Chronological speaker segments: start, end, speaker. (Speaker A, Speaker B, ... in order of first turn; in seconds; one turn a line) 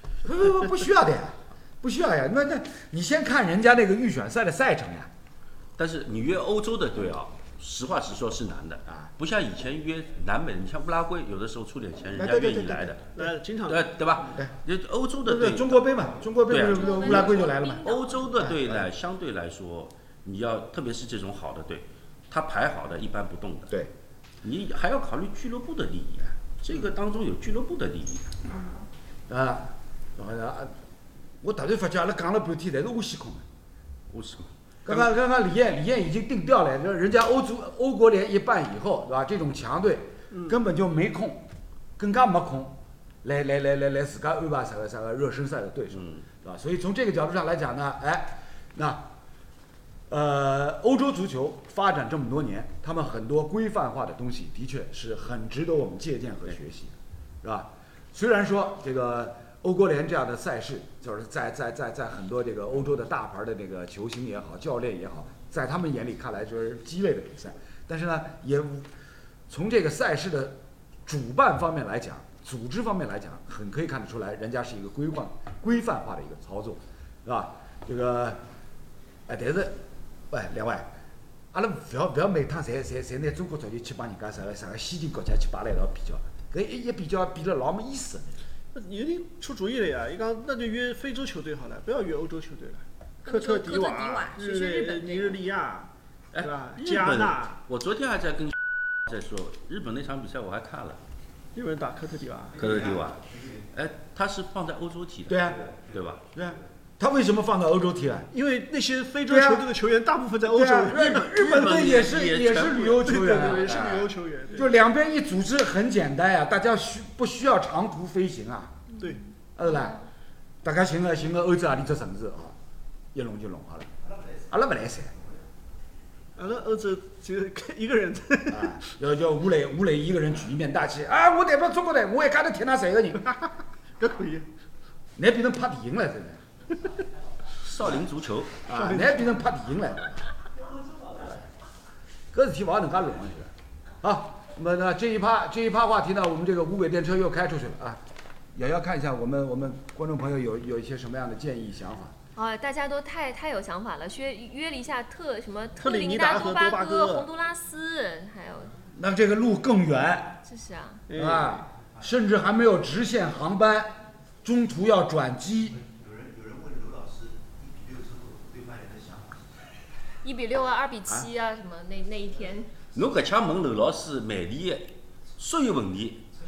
Speaker A: 0.2-5.1
Speaker B: 5.8-23.7
Speaker A: 12.2-13.0
Speaker C: 13.1-14.4
Speaker A: 15.2-18.9
Speaker D: 16.6-18.3
Speaker B: 24.4-28.4
Speaker A: 29.3-30.7
Speaker A: 31.4-33.4
Speaker B: 34.1-35.0
Speaker A: 34.9-41.5
Speaker C: 40.3-40.5
Speaker A: 42.0-49.1
Speaker B: 45.9-46.2
Speaker A: 50.1-68.9
Speaker A: 69.5-78.4
Speaker A: 79.3-80.9
Speaker A: 81.5-88.3
Speaker C: 88.7-97.6
Speaker D: 93.2-95.4
Speaker B: 96.3-101.0
Speaker C: 101.5-102.7
Speaker B: 102.6-106.2
Speaker A: 105.3-105.7
Speaker A: 106.3-108.3
Speaker C: 108.3-111.2
Speaker A: 109.3-109.7
Speaker A: 110.5-118.8
Speaker B: 110.9-113.0
Speaker C: 113.0-114.7
Speaker D: 118.9-119.9
Speaker A: 119.5-120.0
Speaker A: 120.6-122.5
Speaker A: 123.1-123.9
Speaker A: 124.5-125.1
Speaker C: 126.4-128.8
Speaker A: 128.5-133.4
Speaker C: 134.0-134.5
Speaker A: 135.2-136.4
Speaker B: 137.6-138.5
Speaker A: 138.6-140.2
Speaker C: 138.7-139.4
Speaker A: 142.3-143.5
Speaker A: 144.0-148.0
Speaker A: 148.5-152.1
Speaker D: 152.3-158.8
Speaker C: 155.8-157.3
Speaker A: 158.9-160.4
Speaker D: 160.4-161.0
Speaker C: 161.1-161.6
Speaker A: 161.1-165.8
Speaker E: 165.9-169.4
Speaker D: 170.2-172.7
Speaker B: 172.9-176.2